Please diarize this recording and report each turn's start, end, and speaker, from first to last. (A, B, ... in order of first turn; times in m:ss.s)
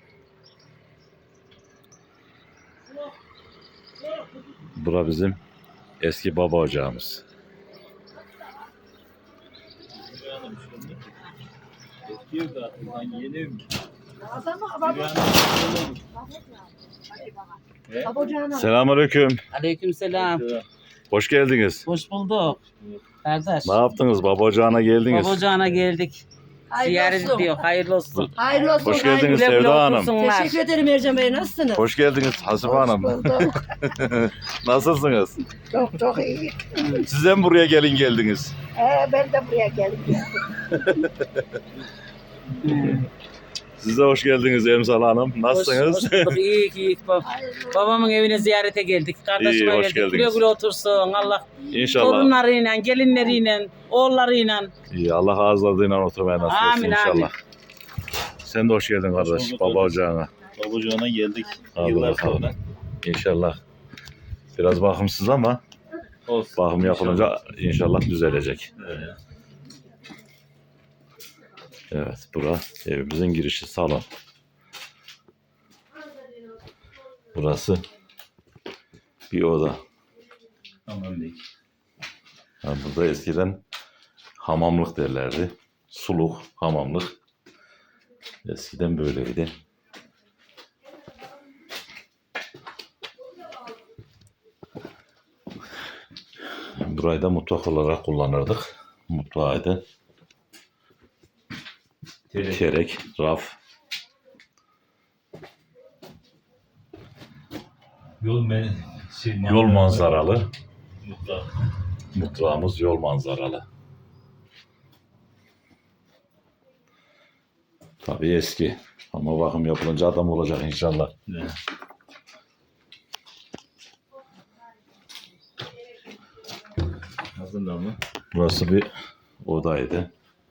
0:04.7-0:05.4 A
0:06.0-0:07.2 A
0:10.1-0:11.0 B
0:12.2-0:13.6 B
0:14.2-0:15.3 C
0:14.9-0:16.0 B
0:18.0-0:18.7 C
0:18.5-0:19.4 A
0:19.5-0:20.4 D
0:20.3-0:20.6 B
0:21.1-0:21.9 A
0:21.8-0:22.6 D
0:23.2-0:23.8 D
0:23.6-0:25.4 A
0:25.1-0:30.6 D
0:26.7-0:27.5 C
0:28.1-0:30.1 A
0:28.4-0:29.5 C
0:30.1-0:31.9 C
0:31.7-0:35.4 A
0:32.6-0:33.6 C
0:35.7-0:36.8 C
0:36.9-0:38.6 A
0:38.7-0:40.8 C
0:42.6-0:43.1 D
0:43.8-0:46.4 A
0:45.5-0:54.7 D
0:47.2-0:47.8 C
0:49.4-0:50.4 A
0:51.7-0:52.3 A
0:54.9-0:57.4 A
0:56.5-0:57.3 D
0:58.4-1:00.3 A
0:59.4-0:59.8 B
1:00.5-1:02.5 B
1:01.7-1:03.6 A
1:04.5-1:05.6 A
1:06.3-1:07.2 B
1:06.5-1:08.7 A
1:08.9-1:09.1 B
1:11.9-1:14.1 A
1:17.3-1:17.8 A
1:19.3-1:19.8 A
1:20.9-1:21.4 B
1:22.6-1:23.6 A
1:24.4-1:27.2 A
1:28.4-1:29.5 A
1:36.8-1:39.8 A
1:42.3-1:43.6 A
1:48.2-1:49.7 B
1:49.4-1:50.5 A
1:51.0-1:51.4 B
1:52.1-1:53.6 A
1:58.0-2:01.1 A
2:07.3-2:08.0 B
2:08.3-2:08.9 A
2:09.4-2:10.1 A